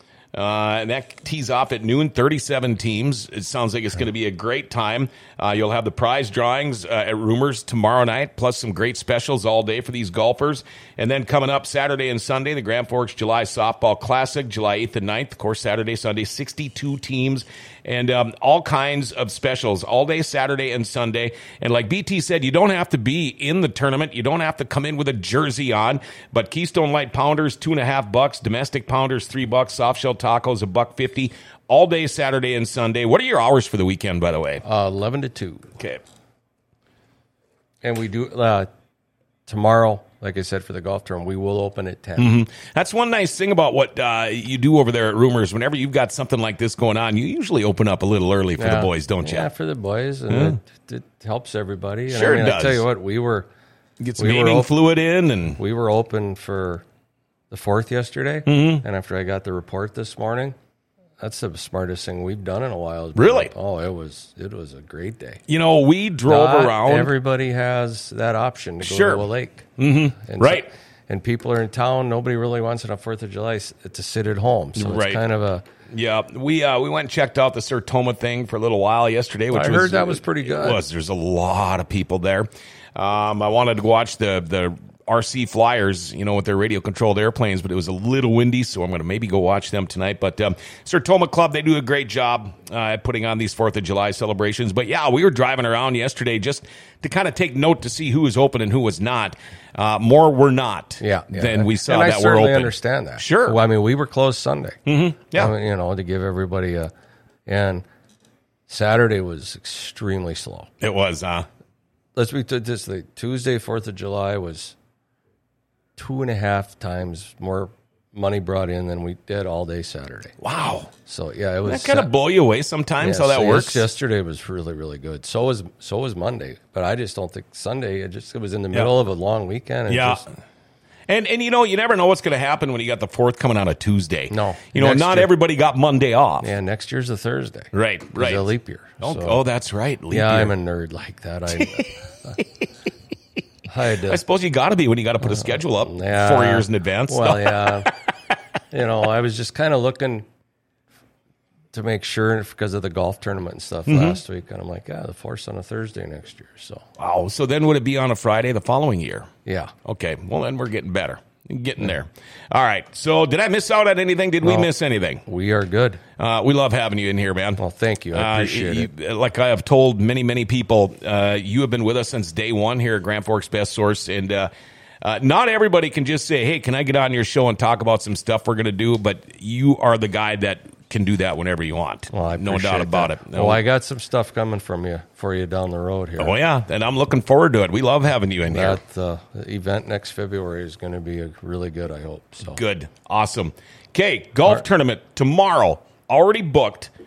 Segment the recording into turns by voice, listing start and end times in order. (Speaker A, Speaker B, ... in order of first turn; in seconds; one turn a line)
Speaker A: 0.3-34.6
Speaker B: 34.6-35.7
Speaker B: 37.8-38.7
Speaker B: 39.5-42.4
Speaker A: 42.2-49.5
Speaker B: 48.6-53.5
Speaker A: 50.3-50.6
Speaker A: 52.1-52.9
Speaker A: 54.0-55.6
Speaker B: 54.2-54.7
Speaker B: 55.6-56.9
Speaker B: 57.5-60.5
Speaker A: 58.5-58.8
Speaker B: 61.2-65.4
Speaker A: 63.1-63.5
Speaker A: 65.5-67.1
Speaker B: 66.3-69.7
Speaker A: 68.8-70.7
Speaker B: 70.2-75.6
Speaker A: 74.8-75.2
Speaker A: 75.9-103.6
Speaker B: 79.5-80.8
Speaker B: 101.0-104.8
Speaker A: 104.8-105.5
Speaker B: 105.3-106.9
Speaker B: 107.5-107.8
Speaker B: 108.7-110.7
Speaker A: 110.8-111.5
Speaker B: 112.2-114.8
Speaker B: 116.0-120.4
Speaker A: 120.4-120.9
Speaker B: 121.1-122.1
Speaker A: 121.7-123.9
Speaker B: 123.0-130.2
Speaker A: 129.9-130.2
Speaker A: 131.1-136.5
Speaker B: 134.3-135.3
Speaker B: 136.4-139.4
Speaker A: 137.7-138.4
Speaker A: 139.0-140.5
Speaker B: 140.1-142.4
Speaker A: 141.6-141.8
Speaker A: 142.4-142.6
Speaker B: 143.7-144.2
Speaker A: 144.0-148.1
Speaker B: 145.2-147.9
Speaker B: 148.7-150.2
Speaker B: 151.7-156.9
Speaker A: 153.9-154.2
Speaker A: 157.0-159.3
Speaker B: 159.4-159.7
Speaker A: 159.8-165.2
Speaker B: 164.4-164.7
Speaker B: 165.3-166.0
Speaker A: 166.2-167.6
Speaker B: 167.6-168.9
Speaker A: 168.1-174.5
Speaker A: 175.0-183.6
Speaker B: 182.1-186.4
Speaker A: 186.2-188.8
Speaker B: 188.5-192.6
Speaker A: 192.4-196.9